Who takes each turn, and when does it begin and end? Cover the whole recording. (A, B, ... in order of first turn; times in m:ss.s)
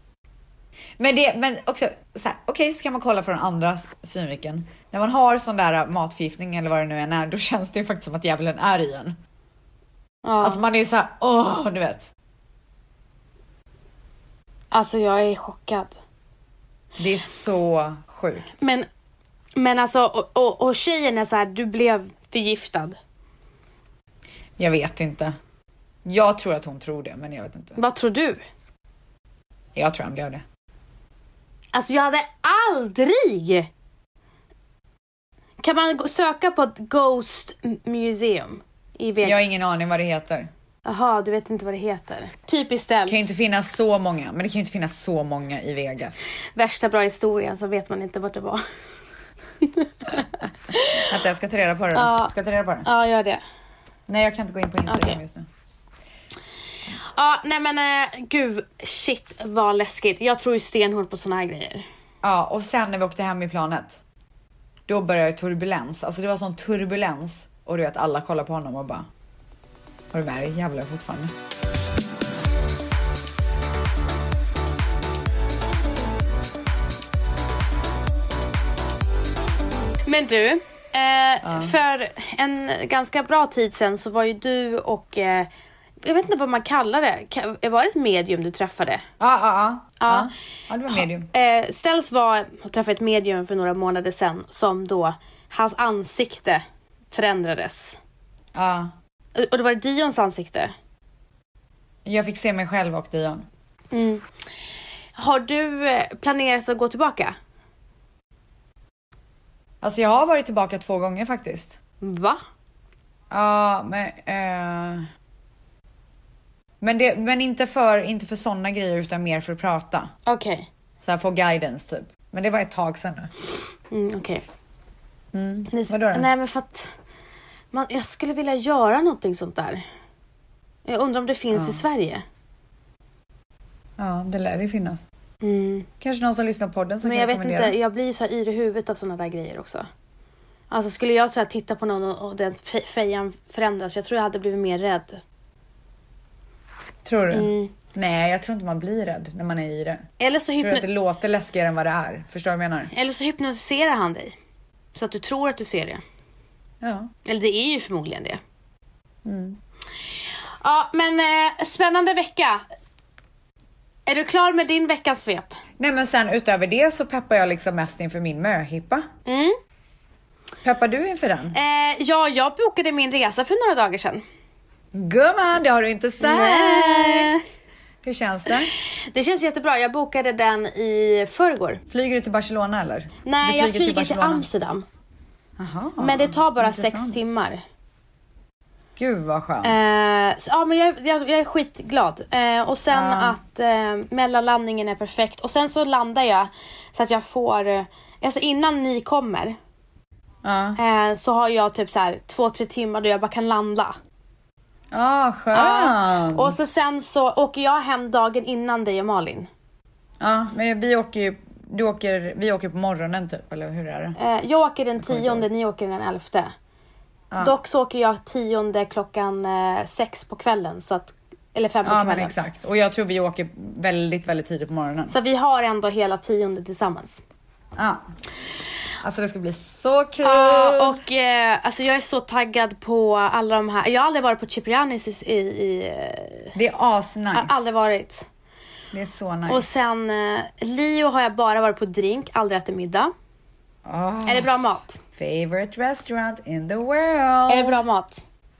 0:01.0-0:09.2 A
0:10.2-0:10.6 B
0:10.4-0:12.1 A
0:14.7-0:16.0 B
0:17.0-0:18.6 A
0:18.6-0:18.9 B
0:19.6-0:23.0 B
0:24.6-0:25.4 A
0:26.0-0:27.8 A
0:27.8-0:28.4 B
0:29.8-0:30.4 A
0:31.7-0:33.7 B
0:35.6-0:39.4 B
0:39.2-0:40.5 A
0:40.8-0:43.3 B
0:43.1-0:46.3 A
0:46.6-0:48.6 B
0:49.6-0:51.1 B
0:51.0-0:52.9 A
0:51.9-0:52.3 B
0:52.8-0:53.4 B
0:54.1-0:55.5 A
0:54.9-0:55.2 B
0:57.0-1:01.9 B
1:02.2-1:04.0 A
1:04.9-1:09.1 A
1:10.1-1:11.3 A
1:20.1-1:25.5 B
1:21.4-1:21.8 A
1:26.0-1:29.0 B
1:29.2-1:31.3 A
1:30.0-1:30.3 B
1:31.0-1:38.0 B
1:38.5-1:38.9 A
1:39.4-1:40.7 B
1:42.0-1:43.5 A
1:43.9-1:44.2 B
1:45.2-1:47.4 B
1:49.8-1:51.8 A
1:52.0-1:52.4 B
1:53.3-1:55.1 A
1:56.8-2:00.1 A
2:00.2-2:00.7 B
2:01.0-2:03.3 A
2:03.9-2:04.4 B
2:05.3-2:06.3 A
2:05.7-2:06.9 B
2:07.7-2:09.8 B
2:10.9-2:12.2 B
2:11.5-2:11.8 A
2:14.0-2:15.0 A
2:15.4-2:15.9 B
2:16.0-2:17.8 A
2:17.0-2:19.9 B
2:20.7-2:25.2 B
2:27.0-2:30.1 A
2:27.3-2:27.7 B
2:30.2-2:30.8 B
2:30.6-2:32.9 A
2:32.9-2:34.4 B
2:34.9-2:36.0 B
2:36.8-2:37.1 A
2:37.2-2:38.4 B
2:39.2-2:39.6 A
2:40.6-2:42.6 B
2:44.1-2:45.5 B
2:45.8-2:49.1 A
2:49.2-2:49.6 B
2:50.6-2:51.6 A
2:51.5-2:54.2 B
2:54.9-2:57.4 A
2:56.2-2:57.4 B
2:58.0-2:58.7 A
2:59.1-3:01.8 B
3:01.9-3:04.5 A
3:03.2-3:04.9 B
3:05.6-3:07.2 A
3:06.0-3:07.6 B
3:09.0-3:09.8 A
3:09.6-3:19.6 B
3:12.9-3:13.4 A
3:20.4-3:20.8 A
3:20.8-3:24.0 B
3:24.9-3:26.5 A
3:25.5-3:29.5 B
3:30.2-3:34.2 A
3:34.2-3:36.5 B
3:35.0-3:35.5 A
3:37.4-3:42.4 B
3:41.8-3:45.2 A
3:45.1-3:47.2 B
3:47.8-3:48.1 A
3:49.0-3:51.0 A
3:50.2-3:56.5 B
3:56.5-3:57.7 A
3:57.3-3:58.3 B
3:58.9-3:59.7 A
3:59.5-4:03.1 B
4:03.8-4:04.5 A
4:04.2-4:05.0 B
4:05.2-4:07.8 A
4:07.5-4:08.2 B